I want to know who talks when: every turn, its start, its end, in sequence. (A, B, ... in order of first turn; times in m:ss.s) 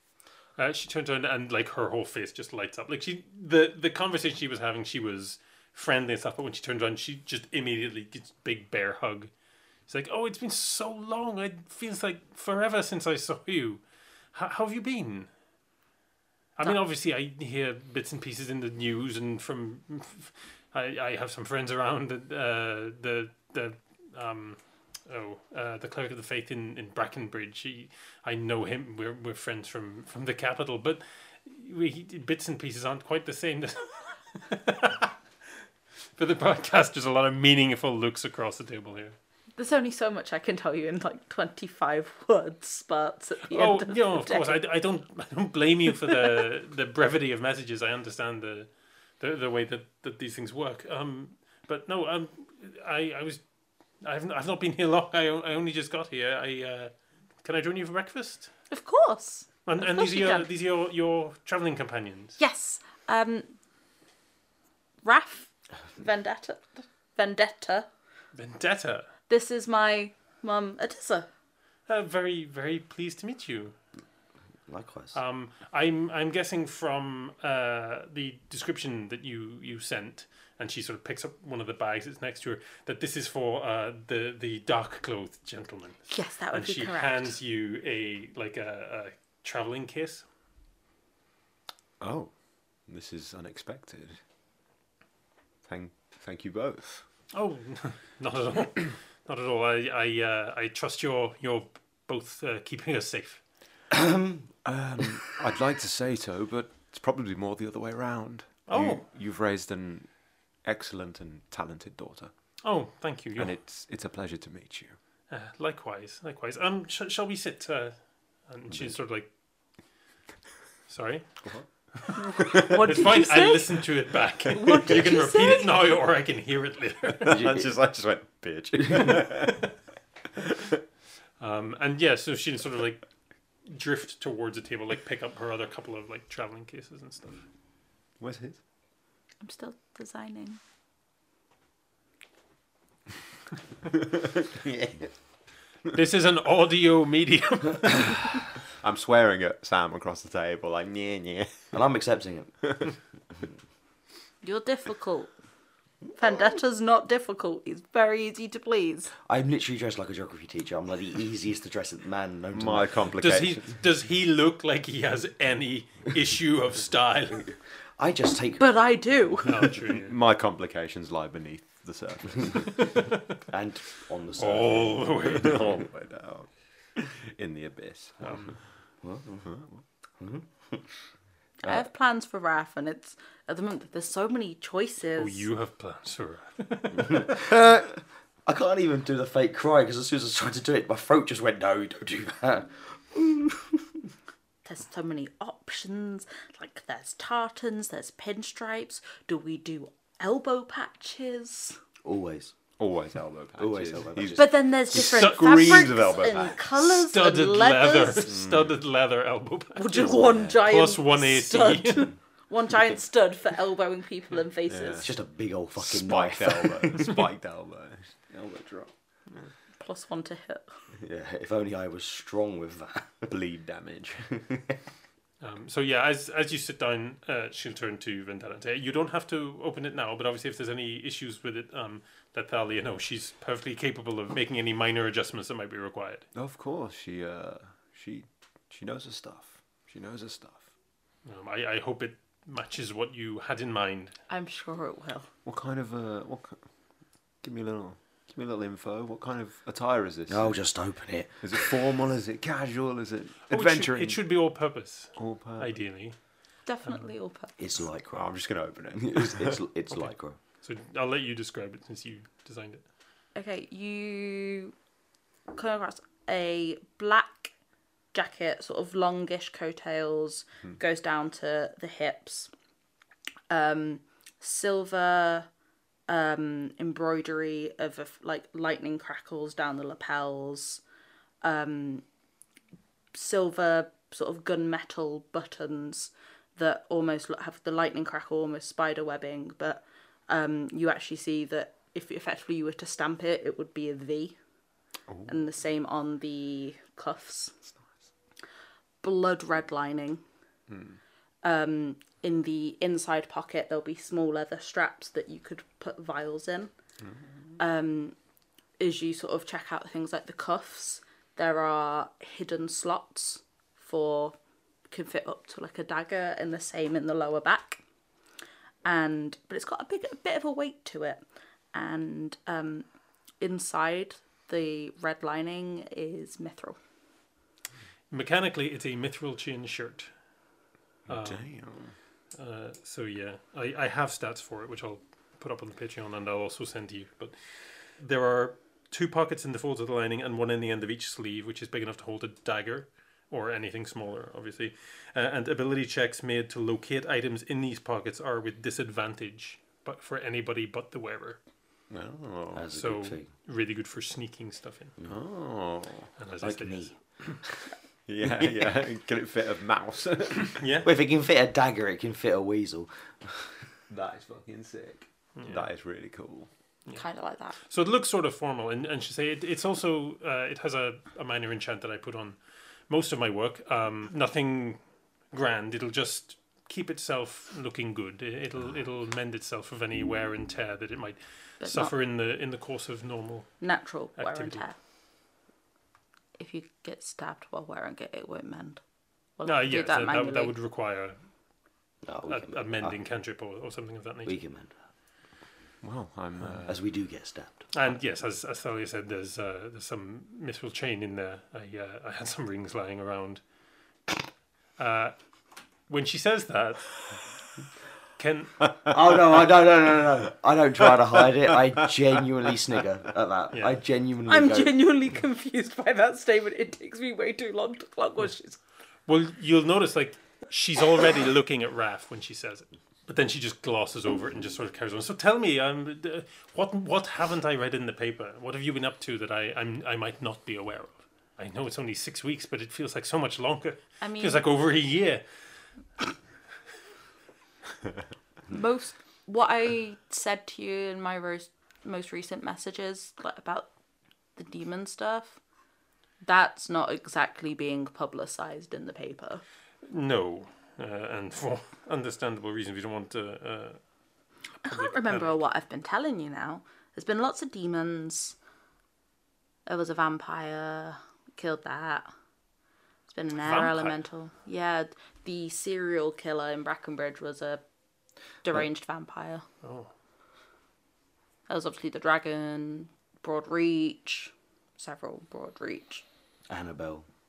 0:00.6-0:09.3 A
0:09.9-0:13.8 A
0:14.3-0:15.3 A
0:16.6-0:35.1 A
0:36.2-0:39.2 A
0:39.6-0:44.6 B
0:43.5-0:48.7 A
0:49.2-0:53.4 A
0:54.0-0:56.9 A
0:57.4-0:58.5 A
0:58.7-1:00.5 B
0:59.6-1:02.4 A
1:02.4-1:03.5 B
1:05.0-1:07.9 B
1:08.3-1:09.1 A
1:09.3-1:11.3 B
1:11.9-1:13.7 A
1:14.7-1:15.2 C
1:15.1-1:30.2 A
1:26.1-1:27.3 B
1:32.0-1:32.3 D
1:32.8-1:34.2 D
1:35.7-1:37.0 D
1:37.3-1:43.4 A
1:43.9-1:44.5 C
1:44.6-1:50.1 D
1:48.7-1:49.0 A
1:50.6-1:52.3 D
1:52.6-1:53.5 A
1:53.4-1:55.0 D
1:55.3-1:57.9 A
1:58.5-1:59.3 A
2:00.9-2:07.4 A
2:02.1-2:03.8 B
2:02.5-2:02.8 D
2:04.5-2:06.0 B
2:07.2-2:09.7 D
2:07.2-2:07.7 C
2:10.4-2:10.7 D
2:11.4-2:13.0 A
2:13.6-2:17.4 A
2:18.2-2:18.6 D
2:19.4-2:20.6 B
2:24.2-2:25.0 D
2:25.9-2:28.4 A
2:28.8-2:31.7 D
2:31.7-2:32.8 C
2:34.4-2:35.3 B
2:36.2-2:39.1 B
2:39.2-2:43.1 C
2:42.5-2:43.6 D
2:43.2-2:47.5 A
2:48.0-2:48.6 C
2:48.6-2:49.7 B
2:49.4-2:50.2 A
2:49.9-2:53.0 D
2:52.9-2:53.2 A
2:53.5-2:55.4 C
2:54.4-2:55.7 A
2:55.3-2:58.6 D
2:58.2-2:58.6 A
2:59.0-2:59.5 C
2:59.4-2:59.8 D
3:00.2-3:00.9 C
3:01.6-3:05.4 B
3:05.2-3:07.4 A
3:07.0-3:14.0 C
3:14.6-3:21.8 B
3:22.0-3:22.5 C
3:22.8-3:26.6 D
3:23.6-3:24.5 C
3:24.3-3:28.3 B
3:24.9-3:26.0 A
3:26.7-3:32.1 A
3:28.2-3:28.8 D
3:29.8-3:35.1 B
3:30.2-3:30.6 C
3:34.7-3:35.1 D
3:35.0-3:37.2 C
3:35.8-3:38.9 D
3:39.8-3:40.7 B
3:40.9-3:43.3 C
3:43.3-3:44.4 D
3:45.4-3:56.2 A
3:56.3-4:00.6 D
4:01.2-4:04.1 A
4:04.3-4:05.3 B
4:05.4-4:06.6 D
4:07.4-4:10.6 D
4:10.3-4:11.7 C
4:11.4-4:14.2 D
4:13.5-4:16.2 A
4:15.2-4:15.7 D
4:16.6-4:17.5 B
4:17.6-4:18.3 C
4:18.1-4:19.6 D
4:18.9-4:20.4 C
4:20.6-4:22.8 A
4:23.3-4:24.7 B
4:25.5-4:27.5 B
4:28.1-4:32.5 B
4:33.5-4:35.5 B
4:36.1-4:40.8 B
4:41.4-4:42.0 B
4:43.1-4:54.4 B
4:55.1-4:55.4 D
4:55.3-4:57.6 B
4:59.0-5:00.2 B
5:00.7-5:01.0 D
5:01.4-5:06.7 B
5:07.6-5:08.2 B
5:08.8-5:14.4 B
5:14.9-5:17.8 B
5:18.8-5:22.8 B
5:23.4-5:26.8 B
5:28.1-5:30.1 A
5:31.1-5:31.9 D
5:31.1-5:31.4 A
5:32.3-5:51.4 A
5:51.9-5:52.7 D
5:52.5-5:53.3 C
5:52.7-5:54.9 A
5:55.1-5:56.1 D
5:56.2-5:57.4 A
5:56.4-5:57.6 C
5:58.1-6:00.6 D
6:00.6-6:00.9 A
6:00.8-6:03.7 C
6:03.9-6:06.5 D
6:05.4-6:05.7 A
6:06.9-6:07.6 B
6:07.6-6:12.4 A
6:12.9-6:14.8 A
6:15.3-6:23.6 A
6:21.6-6:21.9 B
6:23.6-6:24.8 B
6:24.2-6:24.6 A
6:26.4-6:28.8 B
6:29.4-6:30.5 B
6:29.4-6:31.2 A
6:32.0-6:33.0 C
6:32.3-6:34.4 A
6:34.2-6:34.8 C
6:35.8-6:36.8 D
6:36.6-6:37.6 C
6:37.7-6:43.4 A
6:44.8-6:45.2 A
6:45.9-6:47.2 A
6:48.2-6:48.7 A
6:48.9-6:54.8 C
6:53.5-6:53.8 A
6:54.3-6:58.6 B
6:59.0-7:15.2 A
7:14.0-7:14.4 B
7:18.5-7:23.7 B
7:24.4-7:25.4 B
7:26.2-7:29.4 B
7:29.8-7:33.8 A
7:34.6-7:38.4 B
7:34.6-7:35.3 A
7:39.6-7:42.1 B
7:43.1-7:47.6 B
7:43.4-7:44.0 A
7:48.4-7:49.4 B
7:49.6-7:49.9 A
7:51.5-7:56.0 B
7:56.5-7:57.0 C